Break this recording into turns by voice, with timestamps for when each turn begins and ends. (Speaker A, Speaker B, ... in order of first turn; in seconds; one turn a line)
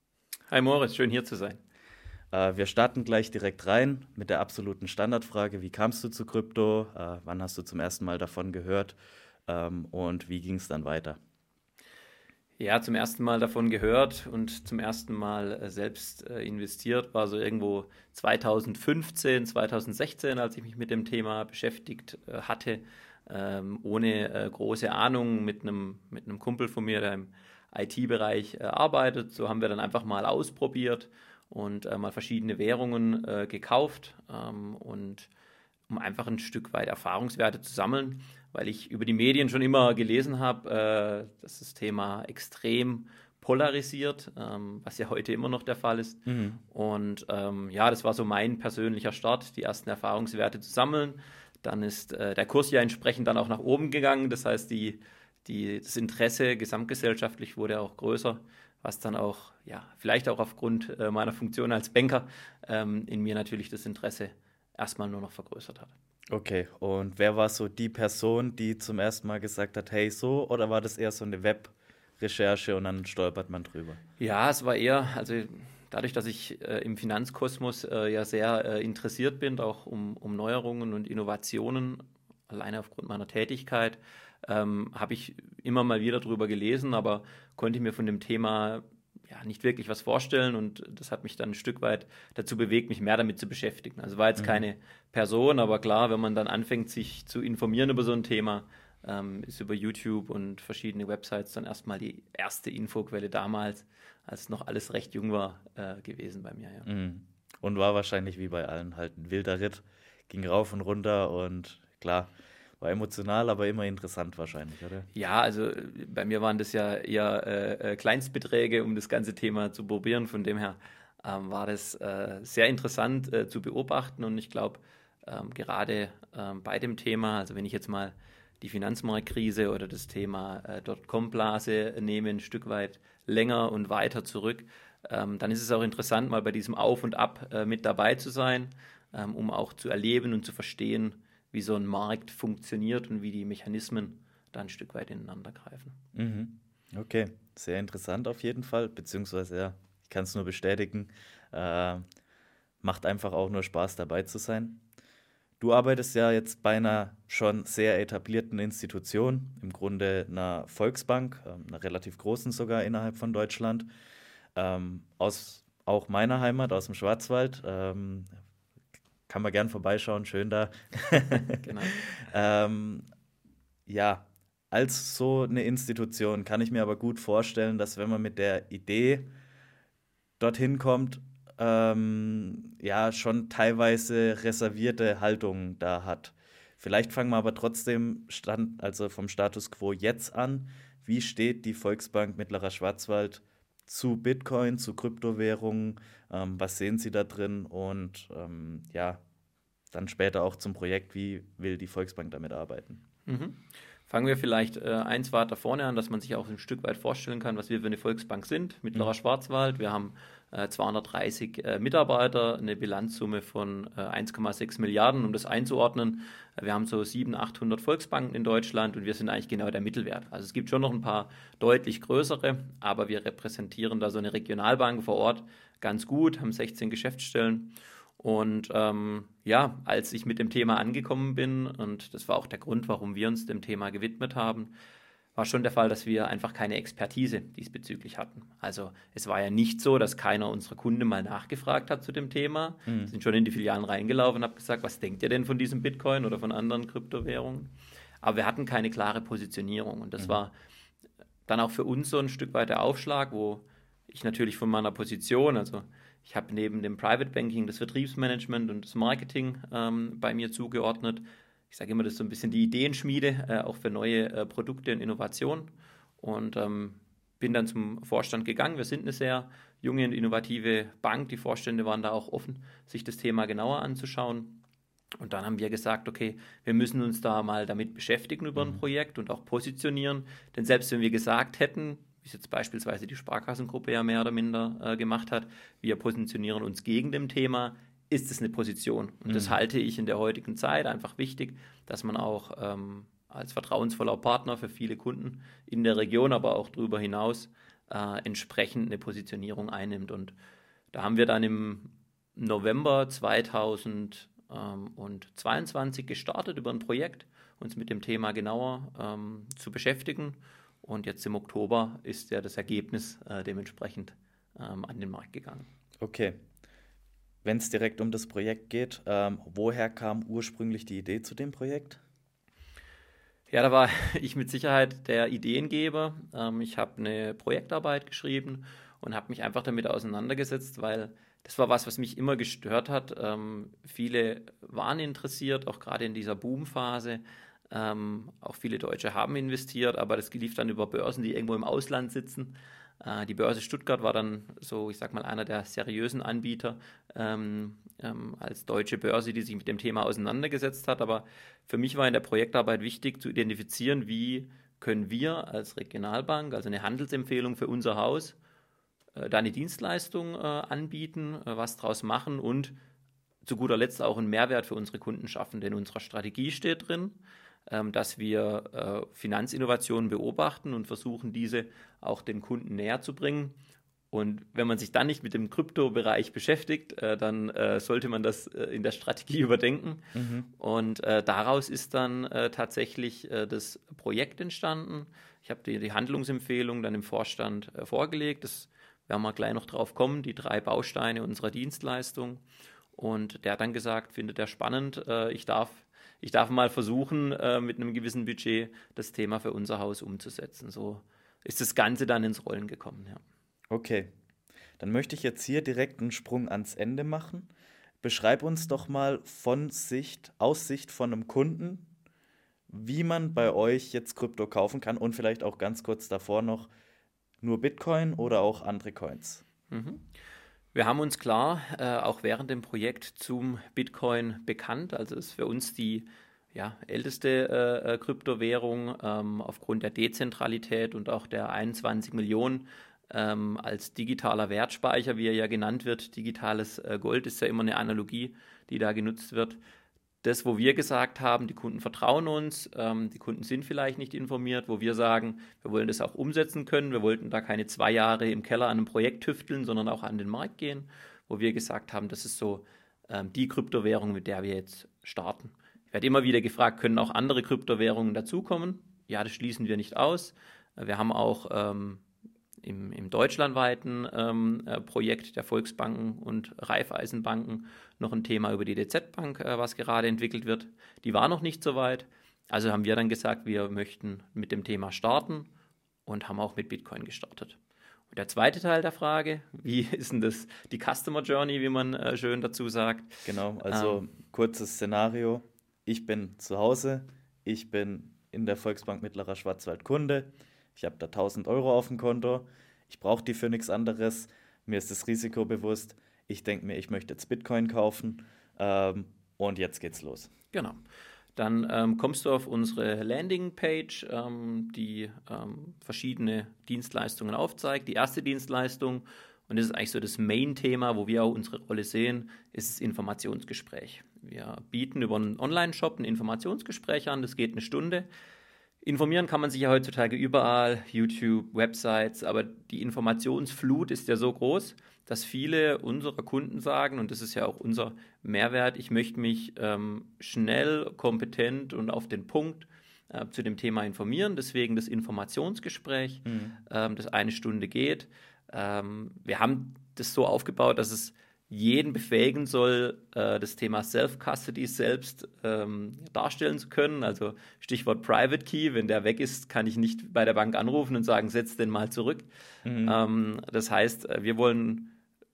Speaker A: 0.5-1.6
Speaker B: 2.3-11.2
Speaker A: 12.6-35.3
Speaker A: 35.9-65.9
Speaker B: 46.3-46.6
Speaker B: 66.3-74.0
Speaker A: 74.2-106.9
Speaker B: 106.8-115.1
Speaker A: 115.1-146.0
Speaker B: 146.1-152.0
Speaker B: 152.8-154.8
Speaker B: 155.6-163.9
Speaker B: 164.5-168.3
Speaker B: 169.3-173.0
Speaker A: 171.6-172.1
Speaker B: 173.9-179.3
Speaker B: 180.4-199.2
Speaker B: 199.9-203.0
Speaker A: 203.3-234.7
Speaker A: 235.3-250.5
Speaker B: 242.8-243.1
Speaker A: 251.5-274.6
Speaker A: 275.2-300.3
Speaker B: 289.3-289.6
Speaker A: 300.9-315.7
Speaker B: 316.0-316.4
Speaker B: 317.4-322.0
Speaker A: 323.5-358.4
Speaker A: 359.1-362.7
Speaker A: 363.4-373.6
Speaker A: 374.1-380.0
Speaker B: 380.1-380.5
Speaker A: 380.6-392.4
Speaker A: 392.9-403.2
Speaker B: 403.7-404.1
Speaker B: 404.8-407.5
Speaker B: 408.0-411.9
Speaker B: 412.7-416.7
Speaker B: 417.4-419.4
Speaker A: 419.7-420.1
Speaker A: 420.7-439.6
Speaker A: 440.2-462.0
Speaker A: 462.6-475.5
Speaker A: 476.1-477.6
Speaker A: 478.1-484.0
Speaker B: 483.2-500.3
Speaker A: 500.5-500.8
Speaker A: 501.4-518.1
Speaker A: 518.8-552.3
Speaker B: 536.2-536.6
Speaker B: 552.6-553.0
Speaker A: 552.8-554.9